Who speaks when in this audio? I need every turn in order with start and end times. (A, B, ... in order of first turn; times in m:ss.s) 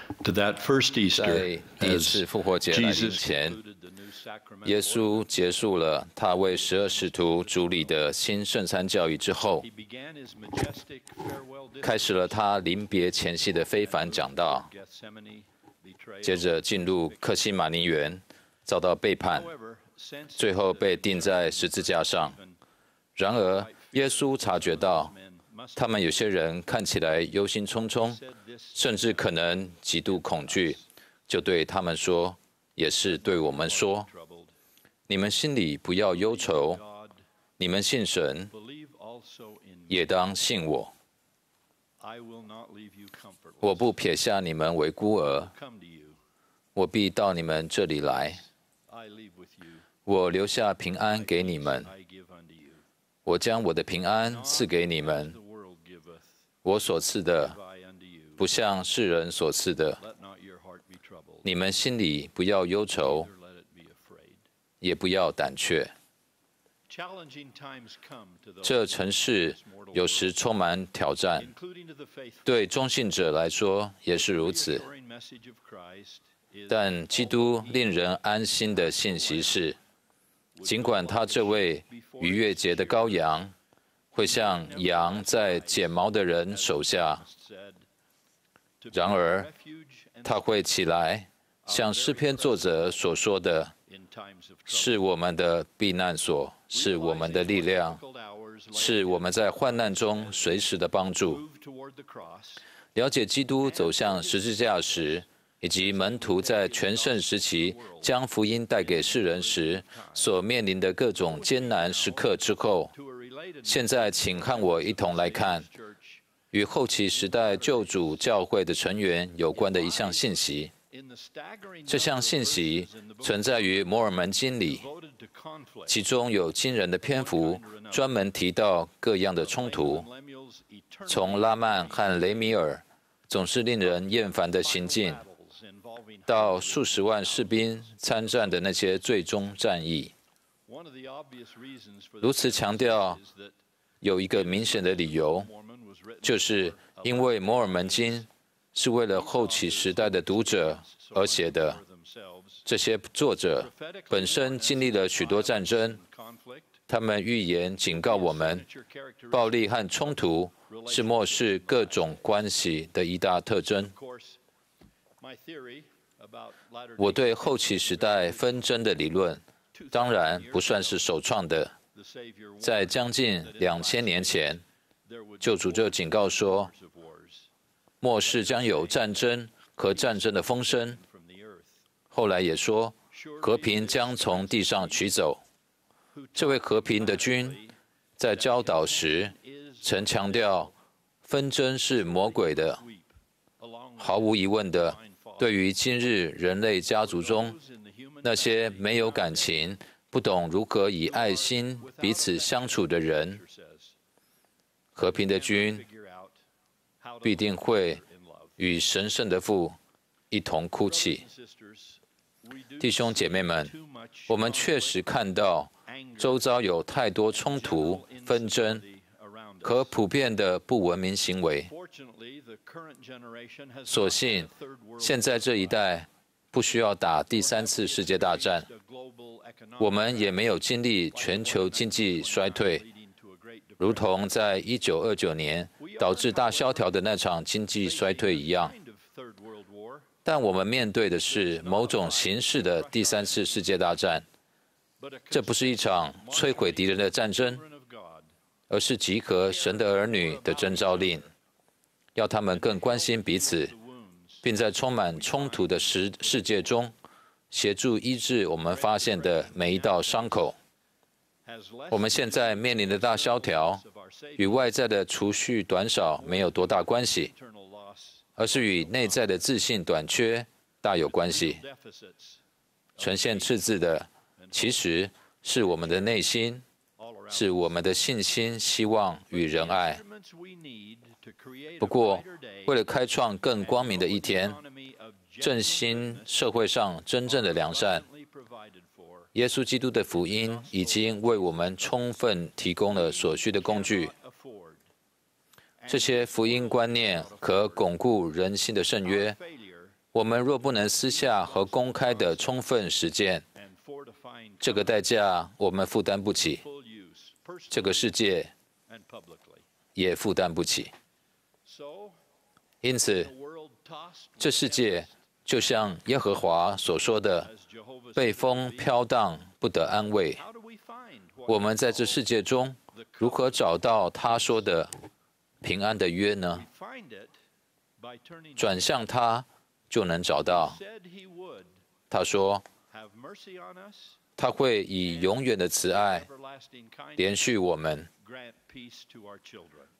0:00.2-0:05.6 A
0:01.1-0:03.6 B
0:04.6-0:09.6 B
0:06.3-0:08.0 A
0:09.6-0:12.6 A
0:11.8-0:14.7 B
0:13.7-0:17.3 A
0:16.2-0:19.5 B
0:19.3-0:22.6 A
0:20.4-0:22.4 B
0:23.2-0:25.1 B
0:23.4-0:26.2 A
0:25.8-0:28.2 B
0:27.8-0:30.8 A
0:28.7-0:30.8 B
0:31.3-0:34.1 B
0:33.0-0:34.5 A
0:35.1-0:36.8 B
0:36.0-0:37.2 A
0:37.6-0:38.5 B
0:38.5-0:40.1 A
0:39.9-0:40.9 B
0:42.0-0:44.0 A
0:43.6-0:45.5 B
0:45.4-0:46.2 A
0:46.7-0:48.4 B
0:48.9-0:49.9 A
0:50.0-0:51.9 B
0:51.0-0:52.8 A
0:53.2-0:55.3 B
0:54.2-0:56.4 A
0:56.6-0:57.6 B
0:57.5-0:58.5 A
0:58.4-1:00.0 B
1:00.0-1:01.5 A
1:01.4-1:03.3 B
1:03.0-1:04.4 A
1:04.8-1:05.9 B
1:06.9-1:10.4 A
1:08.6-1:11.5 B
1:11.4-1:12.7 A
1:12.4-1:14.8 B
1:14.2-1:19.7 A
1:16.7-1:19.8 B
1:20.5-1:23.4 A
1:20.6-1:23.5 B
1:24.1-1:27.2 B
1:24.2-1:27.8 A
1:28.8-1:30.6 A
1:28.9-1:29.5 B
1:30.2-1:33.7 B
1:31.6-1:33.0 A
1:33.9-1:35.0 A
1:34.7-1:38.0 B
1:36.7-1:42.6 A
1:38.7-1:41.4 B
1:42.9-1:52.9 B
1:43.6-1:45.2 A
1:45.8-1:48.2 A
1:48.7-1:50.3 A
1:51.1-1:56.2 A
1:53.6-1:55.7 B
1:56.5-2:00.7 B
1:57.1-1:58.4 A
1:59.5-2:04.0 A
2:01.9-2:04.8 B
2:04.6-2:06.0 A
2:05.9-2:10.0 B
2:07.0-2:08.1 A
2:09.4-2:12.6 A
2:11.1-2:15.2 B
2:13.8-2:18.8 A
2:16.3-2:20.1 B
2:20.7-2:23.6 A
2:22.2-2:23.2 B
2:24.0-2:25.5 B
2:24.3-2:28.3 A
2:26.2-2:31.8 B
2:29.1-2:32.6 A
2:32.6-2:36.0 B
2:33.6-2:36.8 A
2:36.9-2:38.6 B
2:37.9-2:42.4 A
2:39.3-2:43.9 B
2:43.9-2:44.4 A
2:45.2-2:48.8 A
2:47.0-2:51.7 B
2:49.7-2:51.1 A
2:51.9-2:57.5 A
2:52.6-2:54.6 B
2:55.4-2:56.7 B
2:58.0-3:01.0 B
2:58.2-3:01.8 A
3:02.1-3:05.4 B
3:03.1-3:05.2 A
3:06.1-3:07.8 A
3:06.4-3:07.6 B
3:08.2-3:10.7 B
3:08.3-3:10.7 A
3:11.2-3:12.8 B
3:11.8-3:15.7 A
3:14.0-3:17.5 B
3:16.8-3:19.7 A
3:18.2-3:23.4 B
3:21.0-3:23.9 A
3:25.0-3:25.8 B
3:25.1-3:26.4 A
3:27.0-3:28.6 A
3:27.2-3:28.0 B
3:28.6-3:29.8 B
3:30.3-3:31.2 B
3:30.8-3:35.0 A
3:32.8-3:33.7 B
3:34.3-3:38.8 B
3:35.9-3:36.5 A
3:37.3-3:40.0 A
3:39.6-3:41.7 B
3:41.7-3:45.9 A
3:43.9-3:48.7 B
3:47.3-3:50.6 A
3:49.8-3:52.8 B
3:51.1-3:54.2 A
3:53.8-3:58.7 B
3:55.8-3:57.0 A
3:57.8-4:00.2 A
4:00.2-4:04.2 B
4:01.2-4:03.8 A
4:05.0-4:08.3 A
4:05.3-4:07.6 B
4:08.7-4:11.3 B
4:09.4-4:11.3 A
4:12.2-4:13.7 B
4:12.5-4:16.8 A
4:14.4-4:16.9 B
4:17.5-4:20.6 B
4:18.6-4:20.6 A
4:21.4-4:24.7 A
4:21.9-4:23.8 B
4:24.4-4:27.3 B
4:26.1-4:29.4 A
4:28.4-4:31.6 B
4:31.0-4:32.4 A
4:33.0-4:33.6 A
4:33.0-4:36.6 B
4:34.4-4:34.9 A
4:35.6-4:36.2 A
4:37.0-4:38.0 A
4:37.3-4:40.0 B
4:39.3-4:42.9 A
4:41.8-4:44.6 B
4:43.4-4:46.4 A
4:45.4-4:48.0 B
4:47.2-4:49.3 A
4:49.3-4:54.1 B
4:50.1-4:54.8 A
4:55.8-4:58.0 A
4:55.9-4:59.4 B
4:59.0-5:00.0 A
5:00.1-5:03.4 B
5:00.7-5:02.6 A
5:03.5-5:05.1 A
5:04.6-5:06.6 B
5:06.5-5:08.2 A
5:07.7-5:08.5 B
5:08.9-5:09.6 A
5:10.0-5:10.9 B
5:11.6-5:12.2 A
5:12.8-5:13.3 B
5:13.2-5:15.1 A
5:14.4-5:17.5 B
5:17.4-5:19.0 A
5:18.2-5:20.4 B
5:20.3-5:22.3 A
5:21.5-5:24.9 B
5:22.9-5:23.8 A
5:24.3-5:24.6 A
5:25.6-5:26.6 B
5:26.5-5:27.3 A
5:28.0-5:29.0 A
5:28.6-5:30.8 B
5:30.3-5:31.7 A
5:32.1-5:32.6 B
5:32.9-5:34.2 A
5:34.4-5:36.3 B
5:35.0-5:37.5 A
5:37.2-5:38.1 B
5:38.1-5:39.9 A